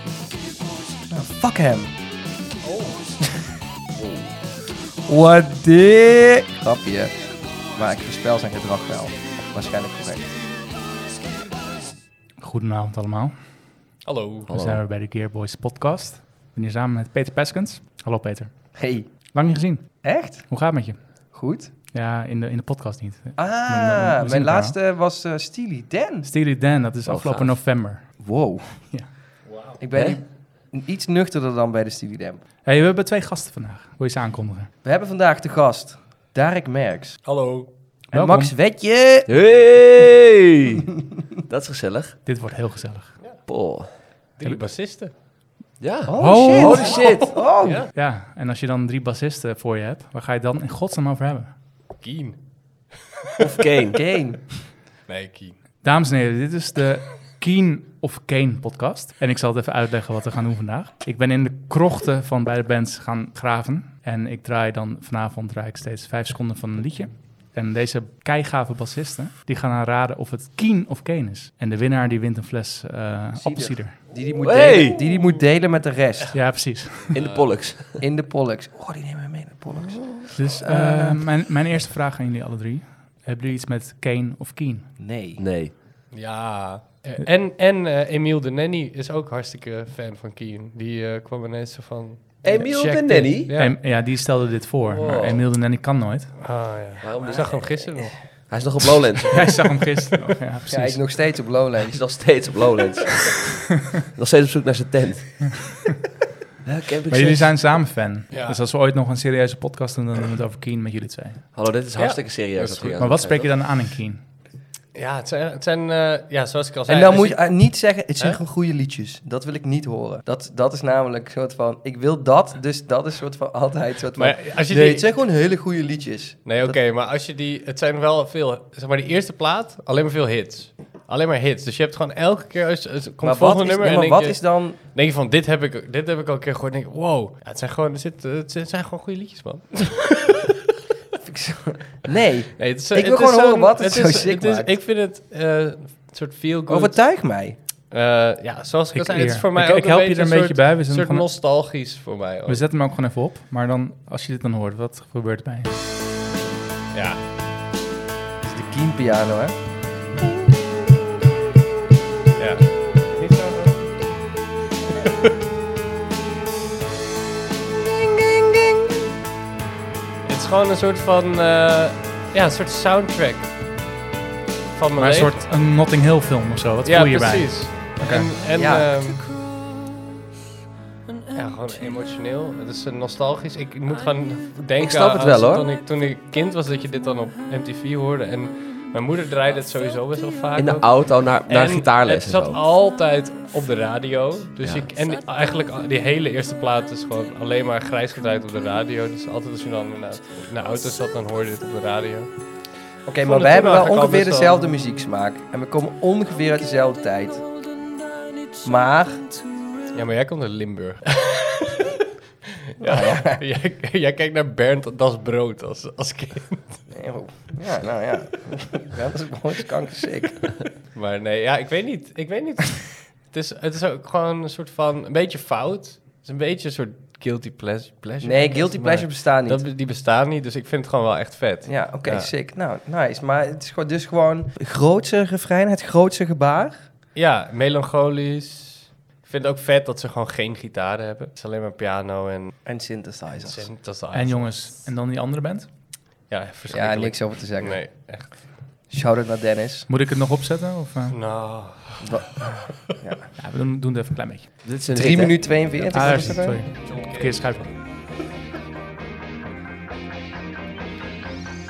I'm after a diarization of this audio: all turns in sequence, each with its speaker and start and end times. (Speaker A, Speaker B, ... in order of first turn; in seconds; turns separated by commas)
Speaker A: 1.1-1.9, Speaker B: 2.6-3.0, Speaker C: 4.0-4.3, Speaker A: 5.1-10.3, Speaker D: 12.4-13.3, Speaker B: 14.0-14.5, Speaker C: 14.5-14.8, Speaker D: 14.5-21.2, Speaker A: 18.7-19.1, Speaker A: 20.0-20.5, Speaker A: 21.3-21.7, Speaker D: 21.9-24.7, Speaker A: 23.4-26.3, Speaker D: 26.2-28.1, Speaker C: 27.1-27.6, Speaker A: 28.2-28.9, Speaker B: 29.4-29.8, Speaker A: 29.8-32.4, Speaker C: 29.9-30.2, Speaker D: 32.6-34.7, Speaker A: 34.8-37.2, Speaker B: 37.2-37.7, Speaker A: 38.1-39.3, Speaker D: 38.1-38.5, Speaker C: 39.3-40.9, Speaker C: 41.5-42.2, Speaker D: 42.2-43.2, Speaker C: 43.5-43.9, Speaker B: 44.4-45.1, Speaker C: 45.8-47.4, Speaker A: 46.1-47.8, Speaker D: 46.2-47.0, Speaker B: 47.6-47.9, Speaker D: 47.9-51.5, Speaker B: 52.0-53.4, Speaker C: 53.4-54.0, Speaker A: 53.9-54.4, Speaker B: 55.1-55.6, Speaker D: 55.8-74.0, Speaker A: 73.3-76.3, Speaker C: 74.4-75.0, Speaker D: 76.3-77.2, Speaker B: 77.1-77.5, Speaker C: 77.1-78.0, Speaker A: 77.9-81.3, Speaker C: 79.9-80.2, Speaker D: 80.3-85.0, Speaker A: 85.0-85.4, Speaker C: 85.4-85.7, Speaker B: 86.1-93.8, Speaker C: 92.4-93.5, Speaker D: 93.5-96.3, Speaker C: 94.8-95.5, Speaker B: 96.4-98.5, Speaker C: 97.0-97.9, Speaker C: 98.5-99.5, Speaker D: 99.3-101.0, Speaker A: 100.7-102.0, Speaker C: 101.8-103.6, Speaker C: 104.1-105.5, Speaker C: 106.6-107.5, Speaker D: 107.1-111.4, Speaker B: 108.3-108.6, Speaker C: 111.5-113.5, Speaker B: 112.0-113.0, Speaker D: 113.0-114.2, Speaker B: 114.9-117.5, Speaker A: 116.9-126.8, Speaker B: 124.1-125.1, Speaker B: 126.4-140.1, Speaker A: 133.2-134.8, Speaker A: 141.2-144.7, Speaker B: 142.6-147.2, Speaker A: 146.7-147.6, Speaker B: 147.9-152.6, Speaker D: 148.9-151.2, Speaker D: 152.5-155.8, Speaker B: 156.9-157.2, Speaker A: 158.4-159.5, Speaker B: 162.4-163.9, Speaker B: 170.2-173.5, Speaker B: 174.7-175.5, Speaker D: 174.9-178.3, Speaker B: 176.8-179.3, Speaker A: 178.5-178.9, Speaker B: 181.3-202.3, Speaker C: 184.8-185.7, Speaker C: 190.6-192.6, Speaker C: 194.6-194.9, Speaker A: 203.1-207.4, Speaker B: 203.2-204.7, Speaker A: 208.6-209.2, Speaker B: 209.9-211.8, Speaker B: 212.8-216.9, Speaker A: 212.8-213.4, Speaker A: 216.9-220.5, Speaker B: 220.8-232.3, Speaker A: 228.2-229.6, Speaker A: 231.7-236.8, Speaker B: 237.1-242.7, Speaker A: 242.7-243.7, Speaker B: 243.4-244.6, Speaker D: 244.1-245.7, Speaker B: 246.3-248.4, Speaker A: 246.7-247.8, Speaker A: 248.9-249.9, Speaker D: 249.9-251.2, Speaker B: 251.1-252.1, Speaker A: 252.0-253.2, Speaker D: 253.4-254.5, Speaker C: 254.6-255.7, Speaker A: 254.9-256.6, Speaker D: 255.9-257.7, Speaker B: 256.8-257.7